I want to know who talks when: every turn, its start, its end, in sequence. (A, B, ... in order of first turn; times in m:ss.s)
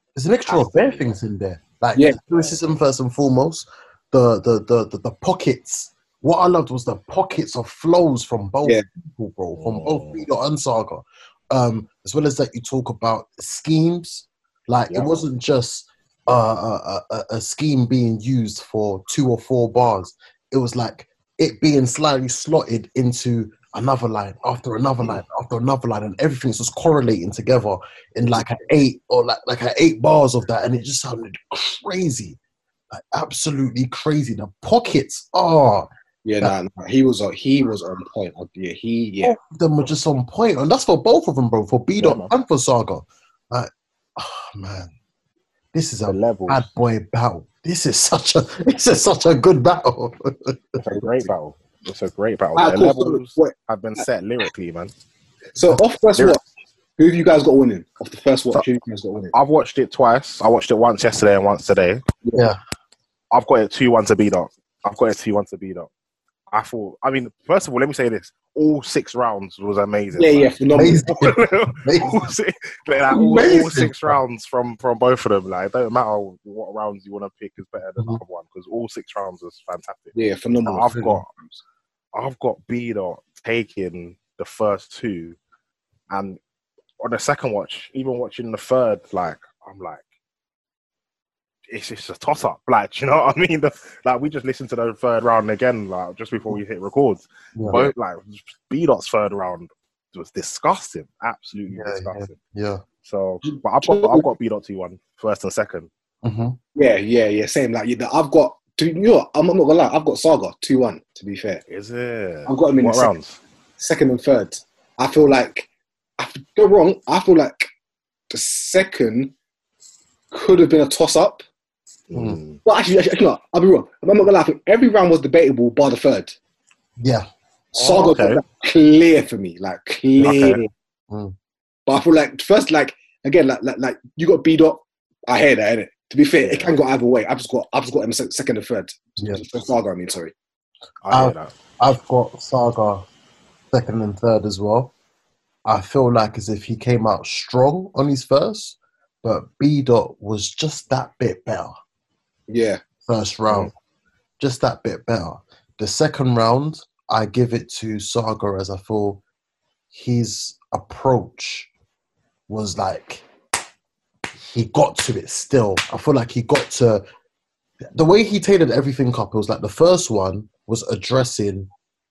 0:00.2-0:32.4 A
0:00.5-0:01.1 B
0:02.0-0:02.2 C
0:02.3-0:02.6 B
0:09.6-0:10.3 B
0:14.9-0:15.2 B
0:32.9-0:35.9 A
0:36.2-0:39.4 C
0:39.2-0:44.9 A
0:42.0-0:42.3 B
0:45.7-0:50.6 A
0:46.0-0:46.7 B
0:50.8-0:54.9 B
0:52.6-0:54.0 C
0:55.6-0:56.4 C
0:57.0-0:59.3 C
0:59.3-1:02.0 B
1:03.3-1:05.9 B
1:06.5-1:21.3 B
1:10.2-1:11.1 C
1:10.8-1:12.2 A
1:13.1-1:14.2 A
1:20.1-1:21.0 C
1:20.8-1:21.2 A
1:22.1-1:25.4 B
1:26.1-1:26.4 B
1:27.0-1:30.0 B
1:31.7-1:42.4 B
1:37.6-1:37.9 A
1:41.7-1:42.8 A
1:43.0-1:45.9 B
1:43.9-1:44.2 C
1:46.2-1:46.6 A
1:46.8-1:51.6 C
1:51.7-1:53.4 B
1:52.5-1:53.1 C
1:53.8-1:57.7 C
1:58.3-1:59.3 C
2:00.3-2:01.4 C
2:02.1-2:02.6 B
2:02.2-2:02.4 A
2:02.6-2:06.4 C
2:07.0-2:07.3 A
2:07.7-2:10.7 C
2:07.8-2:08.4 B
2:10.2-2:10.6 B
2:11.9-2:20.3 C
2:16.4-2:16.7 B
2:21.0-2:21.6 B
2:21.1-2:23.0 A
2:23.7-2:24.9 A
2:25.6-2:31.7 A
2:32.5-2:32.8 C
2:33.1-2:33.7 A
2:34.4-2:39.2 A
2:39.9-2:41.7 A
2:42.5-2:43.3 A
2:44.5-2:47.0 A
2:47.9-2:51.7 A